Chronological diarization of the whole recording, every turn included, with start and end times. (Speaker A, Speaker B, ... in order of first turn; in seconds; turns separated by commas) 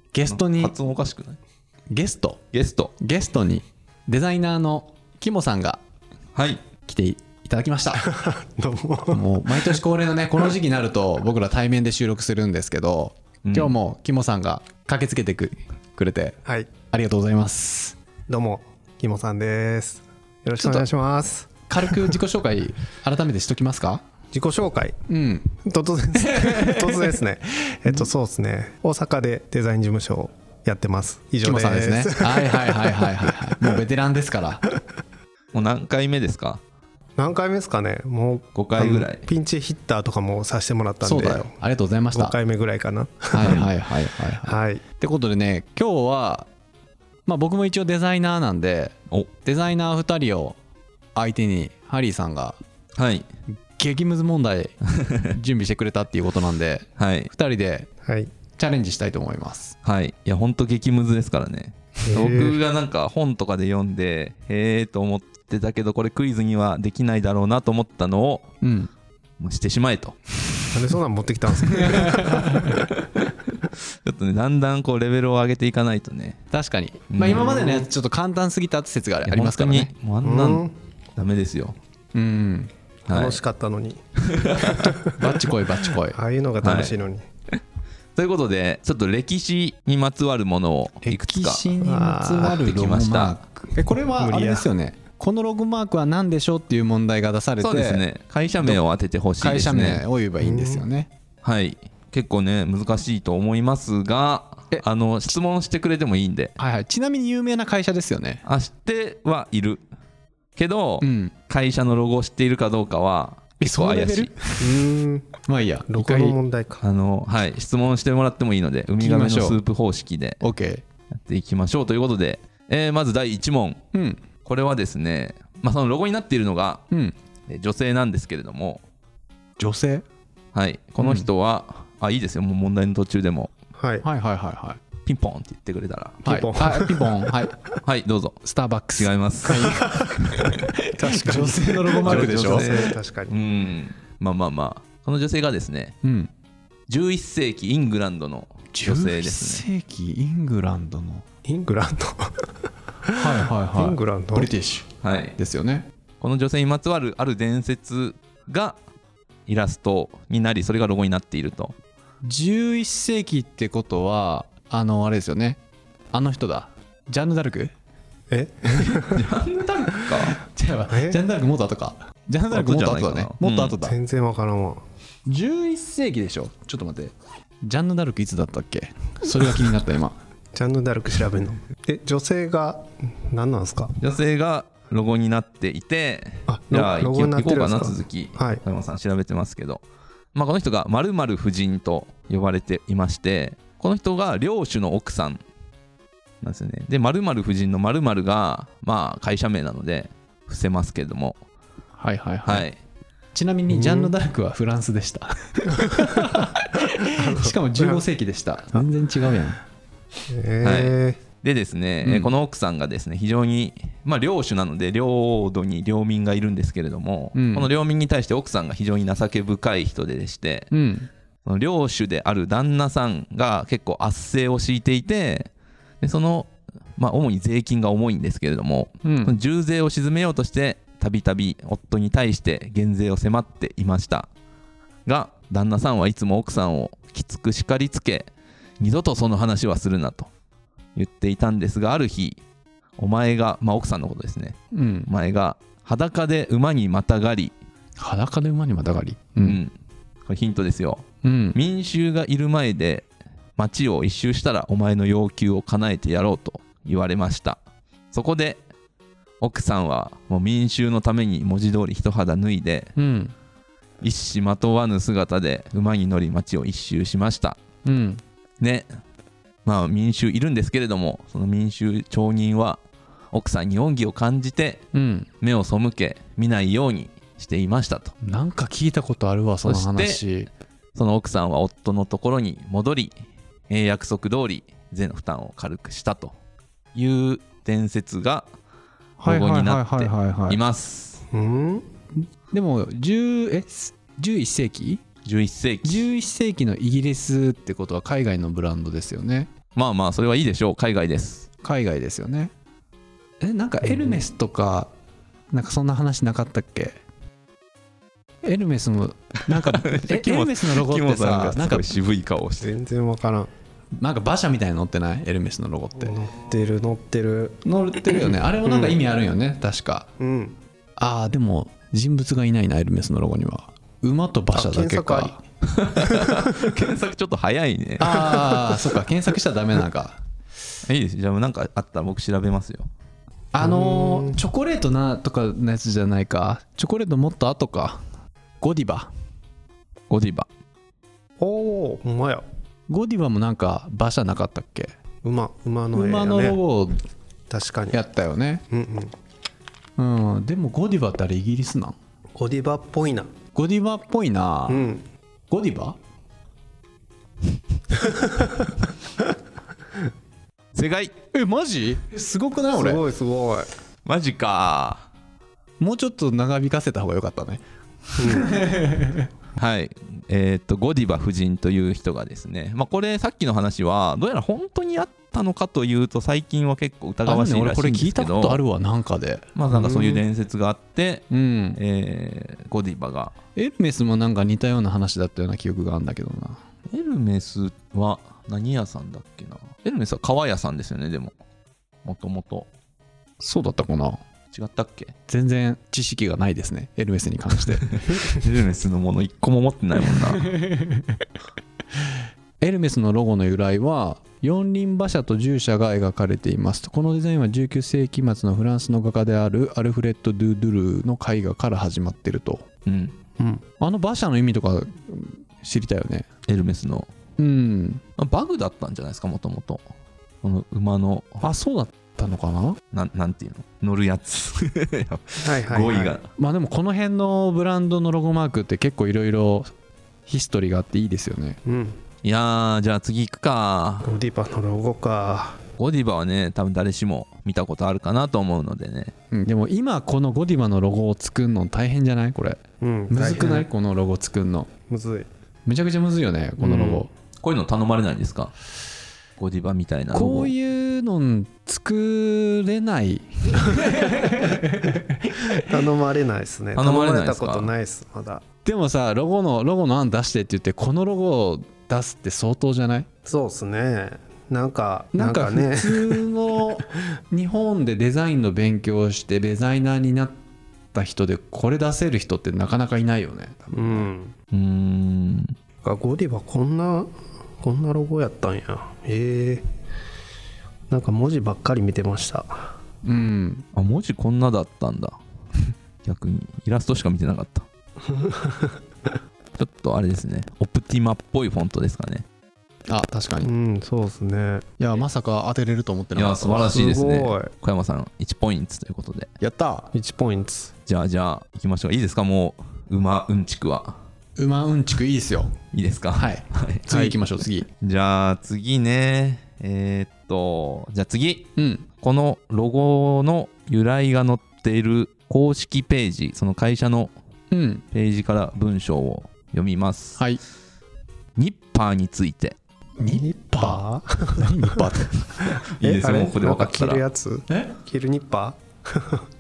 Speaker A: 0.1-0.7, Speaker B: 0.2-1.4, Speaker A: 1.9-2.4, Speaker B: 2.5-2.9, Speaker A: 3.0-5.8, Speaker B: 6.3-6.6, Speaker A: 6.8-8.1, Speaker C: 8.0-9.8, Speaker A: 9.1-18.0, Speaker B: 13.4-13.7, Speaker C: 16.4-16.7, Speaker C: 18.3-22.1, Speaker A: 20.6-20.8, Speaker A: 21.7-24.0, Speaker C: 24.3-25.0, Speaker A: 25.1-25.5, Speaker C: 25.6-33.8, Speaker A: 26.2-27.1, Speaker A: 27.7-28.1, Speaker A: 31.4-34.6, Speaker B: 35.5-36.6, Speaker C: 37.2-41.5, Speaker B: 38.5-39.2, Speaker A: 41.0-42.4, Speaker C: 42.1-43.7, Speaker A: 43.3-46.5, Speaker C: 44.4-44.8, Speaker A: 47.2-50.6, Speaker A: 51.1-52.6, Speaker B: 53.0-53.3, Speaker A: 53.7-54.8, Speaker B: 55.0-55.2, Speaker A: 55.3-57.9, Speaker B: 57.0-57.3, Speaker C: 58.0-58.3, Speaker A: 58.6-59.8, Speaker B: 59.8-68.5, Speaker C: 62.0-62.6, Speaker A: 68.6-68.9, Speaker B: 69.4-70.2, Speaker C: 70.7-72.8, Speaker A: 71.7-72.7, Speaker B: 72.5-73.3, Speaker B: 74.0-76.4, Speaker A: 76.5-79.9, Speaker B: 77.1-77.6, Speaker C: 77.3-77.9, Speaker B: 79.2-81.8, Speaker C: 80.2-80.7, Speaker A: 82.1-82.7, Speaker B: 83.1-83.4, Speaker C: 83.1-85.2, Speaker B: 84.2-84.9, Speaker A: 85.1-86.2, Speaker C: 86.1-87.2, Speaker B: 86.6-87.0, Speaker B: 88.2-91.7, Speaker A: 91.0-98.0, Speaker C: 91.8-92.6, Speaker B: 92.4-93.4, Speaker C: 94.2-94.7, Speaker B: 97.6-100.0, Speaker A: 99.4-101.1, Speaker C: 100.4-100.8, Speaker B: 101.4-106.5, Speaker A: 106.6-108.4, Speaker B: 108.4-109.8, Speaker B: 110.5-114.3, Speaker A: 111.0-111.3, Speaker A: 113.6-114.8, Speaker C: 114.6-115.3, Speaker A: 115.4-116.4, Speaker C: 115.9-116.8, Speaker B: 116.8-120.4, Speaker A: 119.0-119.6, Speaker A: 120.4-120.8, Speaker B: 121.1-123.8, Speaker A: 123.9-124.2, Speaker B: 124.4-126.8, Speaker A: 126.9-127.2, Speaker B: 127.5-128.8, Speaker A: 129.6-130.0, Speaker B: 130.5-133.5, Speaker A: 131.0-131.3, Speaker C: 133.7-134.0, Speaker A: 134.0-134.8, Speaker B: 135.0-136.2, Speaker A: 136.2-137.6, Speaker C: 136.2-137.8, Speaker B: 137.8-138.4, Speaker A: 138.4-142.7, Speaker B: 139.0-140.5, Speaker C: 139.8-143.3, Speaker B: 142.0-146.0, Speaker A: 146.0-146.3, Speaker B: 146.9-149.6, Speaker A: 148.7-151.2, Speaker C: 151.4-152.5, Speaker C: 153.0-154.5, Speaker A: 153.1-155.9, Speaker B: 155.0-155.3, Speaker B: 156.2-158.8, Speaker B: 159.5-161.7, Speaker A: 162.2-165.6, Speaker A: 166.1-167.7, Speaker C: 168.3-169.3, Speaker A: 168.7-169.0, Speaker B: 169.1-170.4, Speaker A: 170.0-174.0, Speaker C: 170.9-171.2, Speaker B: 172.5-173.8, Speaker C: 173.8-174.8, Speaker A: 175.2-180.2, Speaker C: 180.5-183.9, Speaker B: 184.0-189.8, Speaker C: 186.5-188.6, Speaker B: 190.3-195.4, Speaker B: 196.4-201.4, Speaker A: 202.0-202.7, Speaker B: 202.4-202.8, Speaker A: 203.3-209.6, Speaker C: 203.7-204.1, Speaker C: 205.8-206.4, Speaker C: 207.1-208.0, Speaker C: 210.3-211.2, Speaker B: 210.6-220.7, Speaker A: 212.0-212.3, Speaker A: 217.3-217.7, Speaker A: 220.7-221.1, Speaker B: 221.4-225.5, Speaker B: 226.0-234.3, Speaker A: 229.0-229.3, Speaker B: 235.1-240.3, Speaker B: 240.9-242.4, Speaker B: 243.0-247.5, Speaker A: 244.7-245.1, Speaker A: 248.0-249.6, Speaker B: 249.4-249.7, Speaker B: 250.2-257.6, Speaker A: 251.2-251.6, Speaker B: 258.1-258.6, Speaker B: 259.4-262.9, Speaker A: 262.9-263.3, Speaker B: 264.0-267.6, Speaker A: 267.8-268.2, Speaker B: 268.6-268.9, Speaker B: 269.6-272.8, Speaker B: 273.3-274.9, Speaker A: 274.9-275.3, Speaker B: 275.4-278.1, Speaker A: 278.2-280.5, Speaker B: 279.6-280.2, Speaker B: 280.9-283.2, Speaker B: 283.7-286.3, Speaker B: 286.9-288.5, Speaker A: 289.2-290.6, Speaker B: 289.2-291.2, Speaker C: 291.3-291.9, Speaker A: 292.2-295.0, Speaker B: 295.2-296.1, Speaker A: 295.8-299.5, Speaker B: 299.7-301.5, Speaker A: 301.6-302.5, Speaker A: 303.4-304.9, Speaker A: 305.5-307.0, Speaker A: 308.4-311.9, Speaker B: 309.5-312.7, Speaker C: 312.6-313.5, Speaker A: 314.0-316.2, Speaker C: 316.0-317.6, Speaker A: 317.6-320.1, Speaker C: 318.6-318.9, Speaker C: 320.2-320.6, Speaker A: 321.0-325.4, Speaker C: 324.5-325.4, Speaker B: 325.7-328.1, Speaker C: 326.0-326.7, Speaker A: 328.0-330.2, Speaker C: 328.1-328.8, Speaker B: 330.8-332.9, Speaker A: 333.5-338.0, Speaker C: 333.6-334.4, Speaker A: 338.6-339.1, Speaker B: 340.1-340.5, Speaker C: 341.4-342.4, Speaker A: 342.9-344.9, Speaker C: 345.2-346.6, Speaker A: 345.9-347.0, Speaker C: 347.5-348.0, Speaker A: 347.9-348.6, Speaker C: 348.7-349.1, Speaker A: 350.0-352.0, Speaker C: 352.3-353.3, Speaker A: 353.5-354.9, Speaker C: 354.7-355.1, Speaker A: 355.5-356.0, Speaker C: 357.9-358.9, Speaker B: 360.7-361.1, Speaker A: 361.3-363.0, Speaker C: 362.7-363.7, Speaker B: 364.0-365.1, Speaker A: 365.8-367.6, Speaker A: 368.1-369.3, Speaker C: 368.2-368.5, Speaker B: 369.6-378.6, Speaker A: 377.2-379.4, Speaker B: 379.6-383.4, Speaker C: 379.7-380.2, Speaker A: 381.3-381.8, Speaker A: 383.6-386.6, Speaker B: 386.9-391.3, Speaker B: 392.0-392.7, Speaker A: 393.4-394.2, Speaker B: 394.5-395.1, Speaker A: 395.3-397.9, Speaker B: 397.9-400.5, Speaker A: 400.2-401.2, Speaker A: 402.6-412.7, Speaker B: 412.9-413.1, Speaker C: 413.4-413.6, Speaker A: 413.8-416.3, Speaker B: 416.5-417.1, Speaker A: 417.4-418.0, Speaker B: 418.2-419.8, Speaker B: 420.4-421.4, Speaker A: 421.4-422.8, Speaker B: 422.9-426.3, Speaker C: 425.4-426.2, Speaker A: 426.4-429.7, Speaker A: 430.2-431.6, Speaker C: 431.6-432.0, Speaker B: 432.2-434.1, Speaker C: 434.0-435.6, Speaker B: 435.8-439.1, Speaker A: 439.3-444.7, Speaker C: 442.8-443.6, Speaker C: 444.9-445.3, Speaker A: 445.6-447.1, Speaker C: 446.6-447.1, Speaker B: 447.4-448.5, Speaker B: 449.4-450.5, Speaker A: 450.1-455.6, Speaker C: 455.6-458.4, Speaker B: 456.7-457.7, Speaker A: 458.6-463.1, Speaker C: 463.2-466.2, Speaker A: 465.1-470.4, Speaker A: 470.9-474.1, Speaker C: 473.7-474.3, Speaker B: 474.5-475.6, Speaker C: 475.8-479.7, Speaker C: 480.9-482.7, Speaker A: 483.0-483.6, Speaker B: 483.7-485.2, Speaker B: 486.0-487.6, Speaker C: 488.0-489.1, Speaker B: 489.6-492.2, Speaker A: 492.9-493.5, Speaker C: 493.4-494.6, Speaker A: 494.8-496.7, Speaker B: 496.1-499.3, Speaker C: 496.7-497.5, Speaker A: 499.4-499.9, Speaker C: 499.9-500.7, Speaker B: 500.9-504.0, Speaker A: 504.4-505.5, Speaker B: 505.7-507.2, Speaker A: 506.1-507.7, Speaker B: 507.8-517.1, Speaker A: 511.6-511.8, Speaker A: 517.5-517.8, Speaker B: 517.9-520.2, Speaker B: 521.4-522.6, Speaker A: 523.0-523.8, Speaker C: 523.1-524.8, Speaker A: 524.3-525.5, Speaker B: 525.8-527.0, Speaker C: 525.8-529.2